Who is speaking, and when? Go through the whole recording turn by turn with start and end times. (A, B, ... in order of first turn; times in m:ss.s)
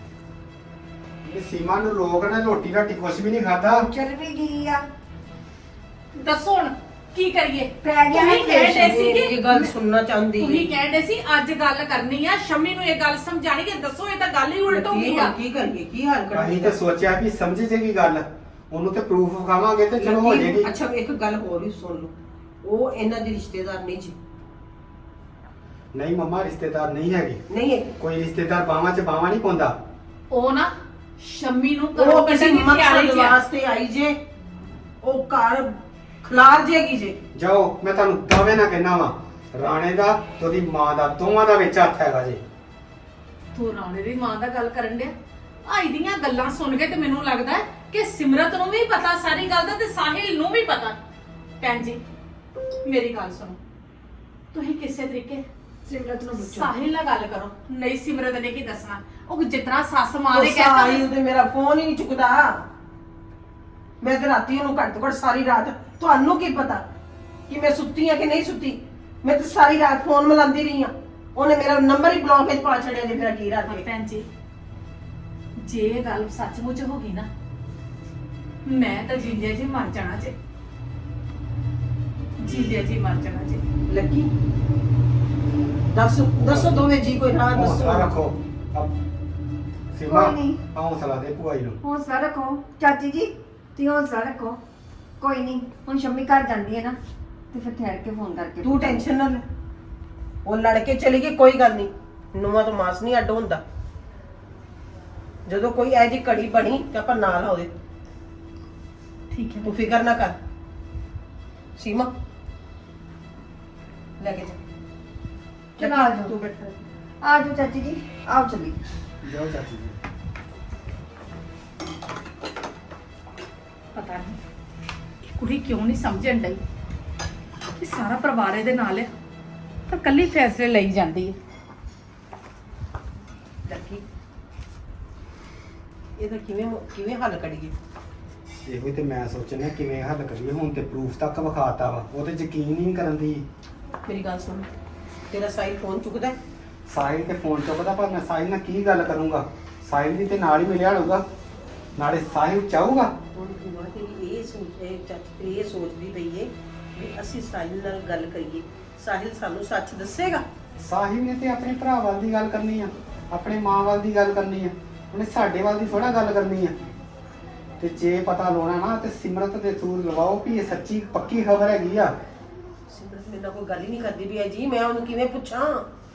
0:01.2-0:03.9 A
0:03.7-0:04.8 B
0:06.1-0:09.7 C
0:07.8-0:09.0 B
0:08.7-0:10.7 D
0:10.4-0:15.3 C
0:14.7-0:16.8 D
0:16.3-0:20.7 A
0:20.0-0:24.1 D
0:25.9-0:27.4 A
0:27.5-0:27.9 D
0:28.0-0:29.7 A
0:30.3-0:33.4 C
0:31.9-0:34.2 D
0:35.0-0:37.2 D
0:37.3-0:42.4 A
0:43.5-0:45.1 C
0:45.6-0:51.0 C
0:51.6-0:52.0 C
0:52.8-0:53.6 C
0:54.5-0:55.4 C
0:55.8-0:56.7 B
0:56.3-1:01.1 C
1:00.3-1:02.6 D
1:04.0-1:06.8 D
1:07.5-1:13.9 D
1:13.6-1:14.2 C
1:15.6-1:17.3 C
1:18.6-1:20.3 C
1:22.4-1:23.6 C
1:23.9-1:24.3 D
1:25.9-1:28.1 D
1:26.4-1:26.8 A
1:27.5-1:29.0 A
1:29.9-1:31.8 A
1:30.1-1:30.6 B
1:31.8-1:34.6 B
1:35.2-1:37.0 B
1:37.5-1:39.0 B
1:38.6-1:39.4 D
1:40.4-1:43.6 D
1:45.4-1:47.7 D
1:49.3-1:49.7 C
1:49.6-1:50.3 D
1:51.8-1:52.1 D
1:54.2-1:54.6 D
1:55.8-1:56.3 B
1:55.8-1:56.8 D
1:57.2-1:58.8 B
1:59.2-2:00.0 A
2:03.9-2:04.4 C
2:05.4-2:06.6 C
2:07.8-2:09.1 C
2:09.9-2:11.4 C
2:13.6-2:14.0 D
2:16.2-2:17.7 D
2:18.6-2:23.4 A
2:24.0-2:24.7 D
2:25.3-2:26.4 D
2:26.9-2:31.2 A
2:32.0-2:33.1 A
2:33.3-2:40.4 D
2:40.8-2:46.8 A
2:47.8-2:52.1 A
2:52.9-2:55.8 D